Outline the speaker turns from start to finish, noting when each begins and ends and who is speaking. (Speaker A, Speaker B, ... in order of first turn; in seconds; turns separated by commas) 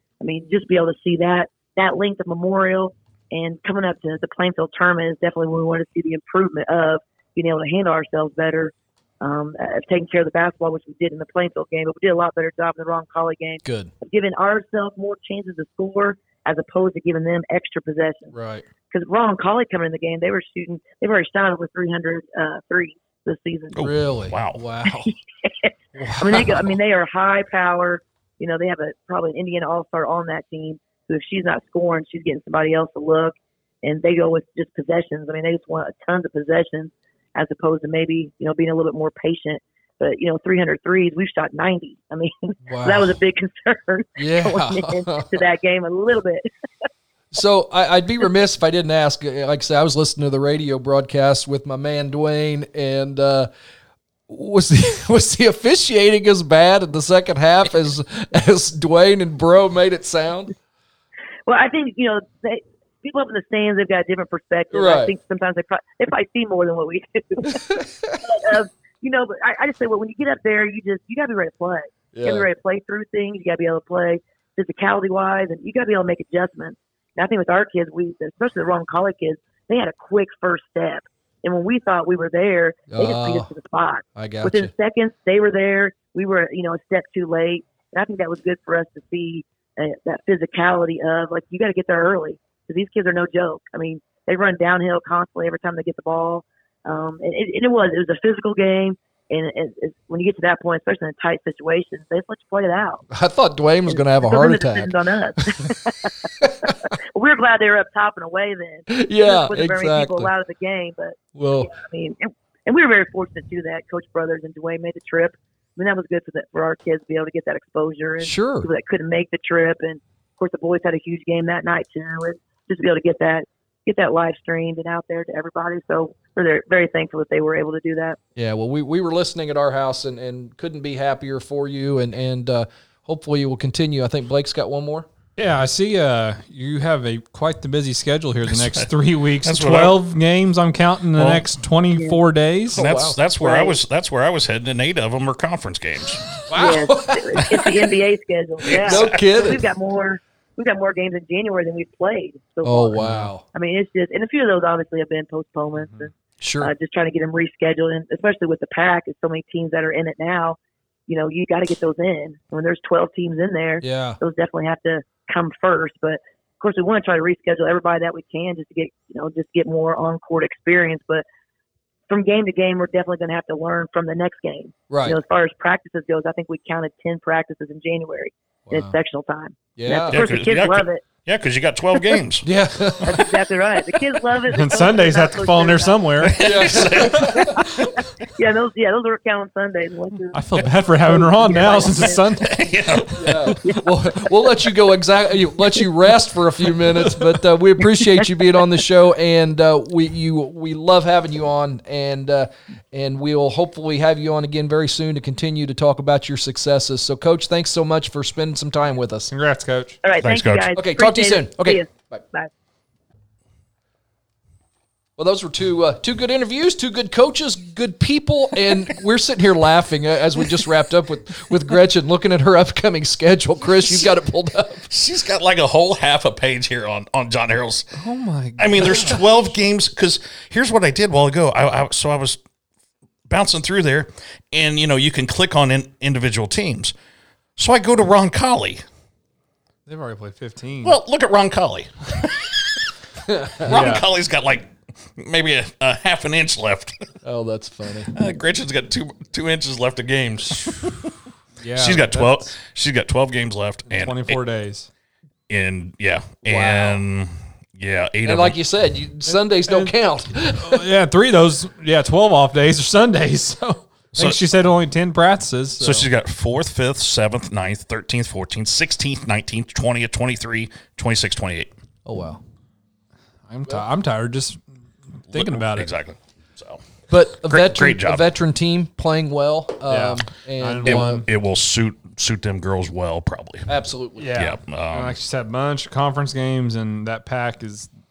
Speaker A: 0.2-18.3, Speaker B: 13.6-13.9, Speaker B: 18.3-18.6, Speaker A: 18.9-23.8, Speaker C: 23.7-24.6, Speaker B: 23.8-25.1, Speaker A: 24.9-46.5, Speaker B: 25.9-26.7, Speaker B: 42.6-43.1, Speaker B: 44.2-45.4, Speaker B: 47.3-53.5, Speaker B: 54.3-60.5, Speaker A: 61.5-103.0, Speaker B: 64.7-65.1, Speaker B: 67.5-68.2, Speaker B: 72.1-72.5, Speaker B: 82.9-83.5, Speaker B: 84.2-84.7, Speaker B: 103.1-105.7, Speaker A: 103.9-128.2, Speaker B: 106.4-106.7, Speaker B: 108.9-110.3, Speaker B: 111.3-111.7, Speaker B: 118.2-118.7, Speaker B: 128.3-135.1, Speaker D: 135.4-142.8, Speaker C: 138.5-140.0, Speaker C: 141.2-141.4, Speaker A: 141.9-142.2, Speaker C: 142.7-146.2, Speaker B: 142.7-143.2, Speaker A: 143.4-143.7, Speaker B: 146.5-147.8, Speaker A: 146.5-160.6, Speaker C: 148.7-149.2, Speaker B: 148.8-149.6, Speaker B: 152.6-153.4, Speaker D: 153.0-153.3, Speaker B: 156.4-156.7, Speaker A: 161.1-171.2, Speaker B: 163.8-164.2, Speaker A: 172.1-181.0, Speaker B: 174.9-175.2, Speaker B: 178.7-179.0, Speaker B: 179.8-180.2, Speaker C: 180.1-182.4, Speaker B: 182.4-183.3, Speaker A: 183.0-186.3, Speaker D: 184.5-187.0, Speaker C: 186.2-187.7, Speaker B: 186.4-187.7, Speaker A: 188.3-190.4, Speaker D: 190.3-192.6, Speaker A: 191.0-192.2, Speaker C: 192.4-193.5, Speaker B: 193.2-209.3, Speaker D: 209.3-210.0, Speaker A: 210.0-212.5, Speaker C: 210.2-210.7, Speaker B: 210.8-211.8, Speaker B: 215.2-224.9, Speaker C: 224.9-227.9, Speaker D: 228.0-229.2, Speaker C: 228.6-232.4, Speaker C: 233.3-236.9, Speaker C: 237.6-238.8, Speaker D: 239.9-241.0, Speaker C: 240.8-242.9, Speaker B: 243.2-243.7, Speaker C: 243.6-247.0, Speaker D: 243.7-244.0, Speaker B: 247.2-248.1, Speaker C: 248.1-251.1, Speaker D: 251.6-252.5, Speaker C: 251.8-254.4, Speaker D: 253.9-254.9, Speaker C: 255.5-258.6, Speaker B: 256.4-257.0, Speaker B: 258.2-260.8, Speaker D: 259.3-259.9, Speaker D: 260.6-266.1, Speaker C: 264.1-264.4, Speaker C: 265.8-271.7, Speaker B: 272.1-272.4, Speaker D: 273.5-274.6, Speaker D: 275.3-275.9, Speaker C: 275.3-276.8, Speaker B: 277.1-281.2, Speaker C: 277.4-278.3, Speaker D: 279.9-281.3, Speaker C: 280.8-283.7, Speaker B: 283.7-284.3, Speaker D: 284.2-287.9, Speaker C: 284.3-285.2